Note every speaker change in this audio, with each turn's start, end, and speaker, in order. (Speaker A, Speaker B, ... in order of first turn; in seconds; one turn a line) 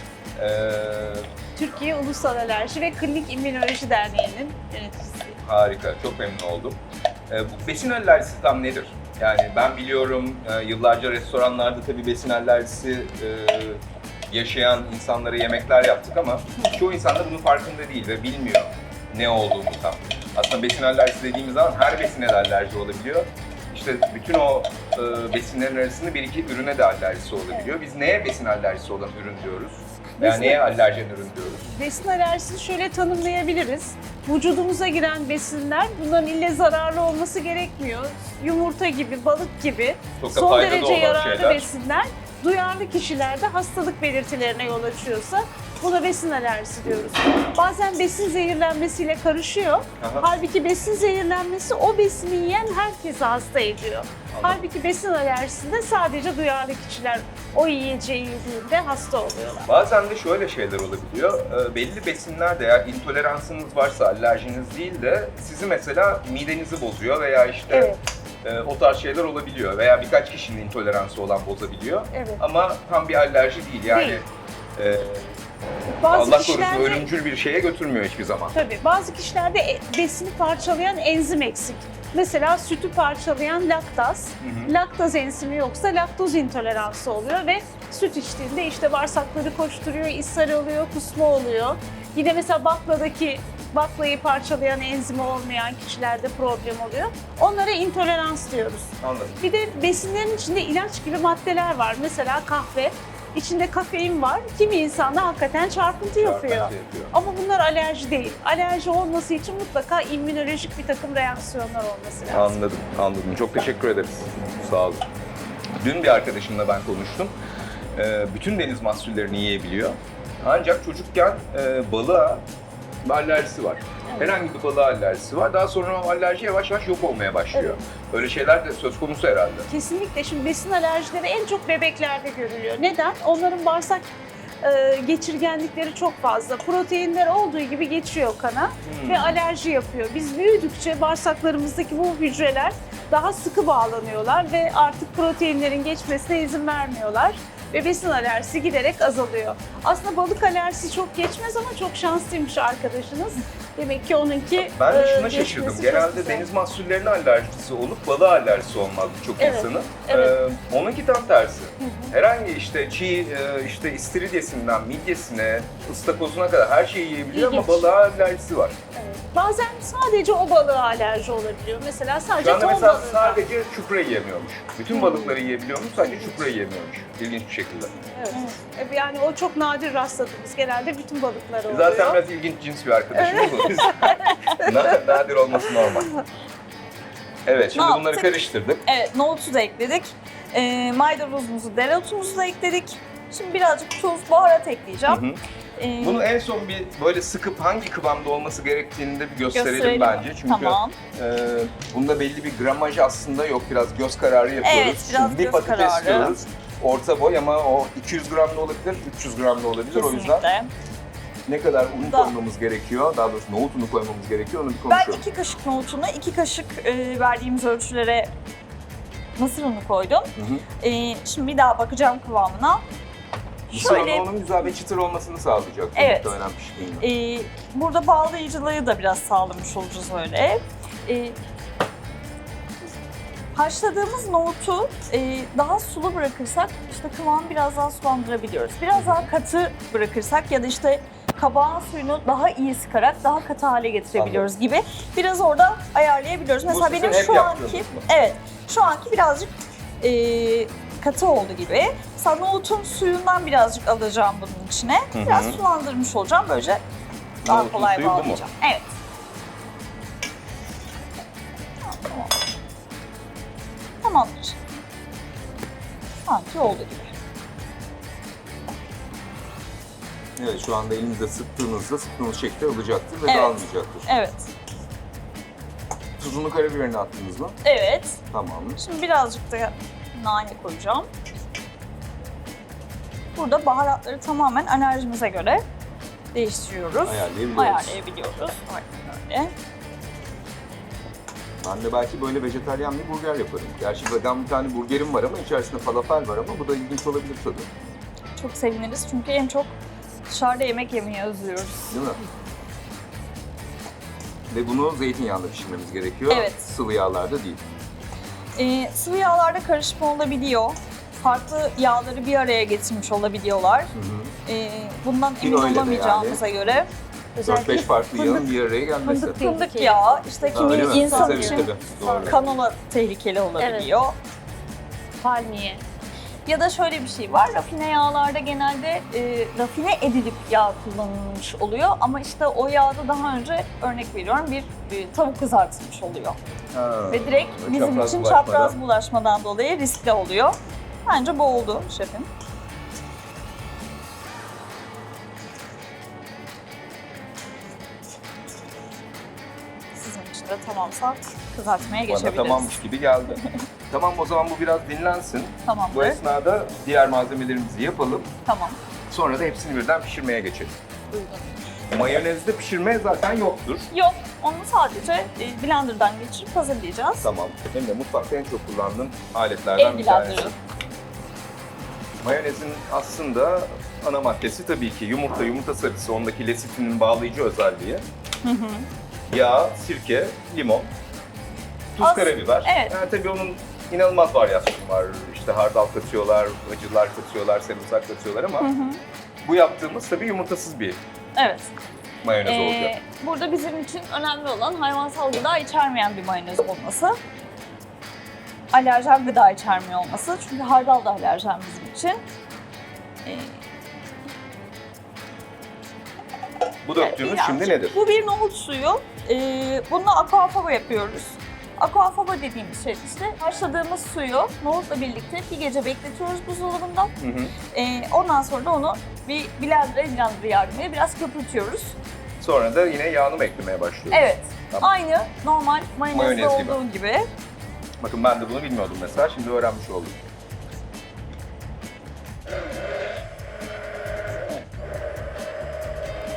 Speaker A: 0.4-1.3
Speaker B: 1.6-5.4
Speaker A: 5.4-31.7
Speaker B: 30.2-30.6
Speaker B: 31.7-59.7
Speaker A: 40.2-41.7
Speaker A: 50.0-50.3
Speaker A: 54.3-54.6
Speaker A: 59.7-75.4
Speaker B: 67.7-68.0
Speaker B: 72.1-72.4
Speaker B: 73.9-74.2
Speaker B: 75.9-77.1
Speaker A: 76.1-78.5
Speaker B: 78.5-112.6
Speaker A: 84.4-84.7
Speaker A: 99.0-99.4
Speaker A: 106.1-107.1
Speaker A: 112.3-115.0
Speaker A: 115.8-117.3
Speaker A: 117.9-122.4
Speaker A: 123.0-129.7
Speaker B: 124.1-124.3
Speaker B: 129.7-134.0
Speaker B: 134.6-156.5
Speaker A: 138.9-139.4
Speaker A: 154.7-168.8
Speaker B: 159.4-160.4
Speaker B: 161.8-162.2
Speaker B: 167.3-167.9
Speaker B: 168.9-173.4
Speaker A: 172.4-177.9
Speaker B: 174.9-175.3
Speaker B: 178.1-182.2
Speaker C: 178.3-178.6
Speaker A: 181.7-186.1
Speaker B: 183.1-185.9
Speaker A: 187.5-188.8
Speaker C: 187.8-195.2
Speaker A: 195.1-195.4
Speaker C: 195.8-196.3
Speaker A: 196.0-210.5
Speaker C: 199.6-201.0
Speaker C: 204.6-206.4
Speaker C: 209.9-210.7
Speaker A: 211.5-215.2
Speaker C: 212.0-212.3
Speaker C: 214.9-218.3
Speaker C: 219.4-222.8
Speaker A: 220.4-220.7
Speaker C: 223.7-224.3
Speaker A: 223.7-227.1
Speaker C: 226.0-226.4
Speaker C: 227.0-231.4
Speaker C: 233.6-256.8
Speaker A: 238.9-239.3
Speaker A: 244.2-244.5
Speaker A: 246.7-248.1
Speaker A: 255.1-255.6
Speaker A: 257.4-258.4
Speaker C: 257.4-258.9
Speaker C: 261.8-262.3
Speaker C: 264.0-264.6
Speaker C: 266.2-267.1
Speaker A: 270.4-274.1
Speaker C: 273.3-274.5
Speaker A: 276.2-277.6
Speaker C: 277.6-278.2
Speaker A: 278.3-278.8
Speaker C: 278.8-281.1
Speaker C: 283.4-285.6
Speaker C: 286.3-289.5
Speaker A: 287.0-288.0
Speaker A: 291.6-297.7
Speaker C: 298.4-299.7
Speaker C: 300.3-302.0
Speaker A: 301.9-302.2
Speaker A: 304.5-307.6
Speaker C: 306.3-306.7
Speaker C: 308.6-313.9
Speaker A: 313.9-314.3
Speaker C: 314.4-316.9
Speaker A: 315.4-316.4
Speaker B: 317.4-318.5
Speaker A: 317.4-319.4
Speaker B: 319.0-322.4
Speaker C: 319.4-324.2
Speaker A: 320.6-322.5
Speaker B: 323.6-323.9
Speaker B: 325.2-325.8
Speaker C: 326.5-336.4
Speaker A: 336.7-338.8
Speaker C: 337.1-342.3
Speaker C: 350.0-352.7
Speaker A: 351.8-358.3
Speaker C: 355.7-356.2
Speaker C: 358.5-358.8
Speaker A: 359.1-360.8
Speaker C: 361.1-361.6
Speaker A: 361.9-363.8
Speaker C: 363.9-367.3
Speaker A: 367.2-370.5
Speaker C: 369.8-370.6
Speaker A: 372.2-378.0
Speaker C: 378.4-378.9
Speaker A: 379.3-380.9
Speaker A: 382.0-388.7
Speaker C: 382.0-382.9
Speaker C: 388.6-389.0
Speaker A: 389.4-391.0
Speaker C: 391.4-391.7
Speaker A: 392.2-392.9
Speaker C: 392.4-397.2
Speaker C: 398.7-402.2
Speaker C: 403.2-403.6
Speaker A: 406.8-408.0
Speaker C: 407.0-417.1
Speaker A: 417.2-417.5
Speaker C: 417.7-422.0
Speaker A: 422.4-424.9
Speaker C: 424.1-427.3
Speaker A: 426.1-426.8
Speaker A: 428.0-430.2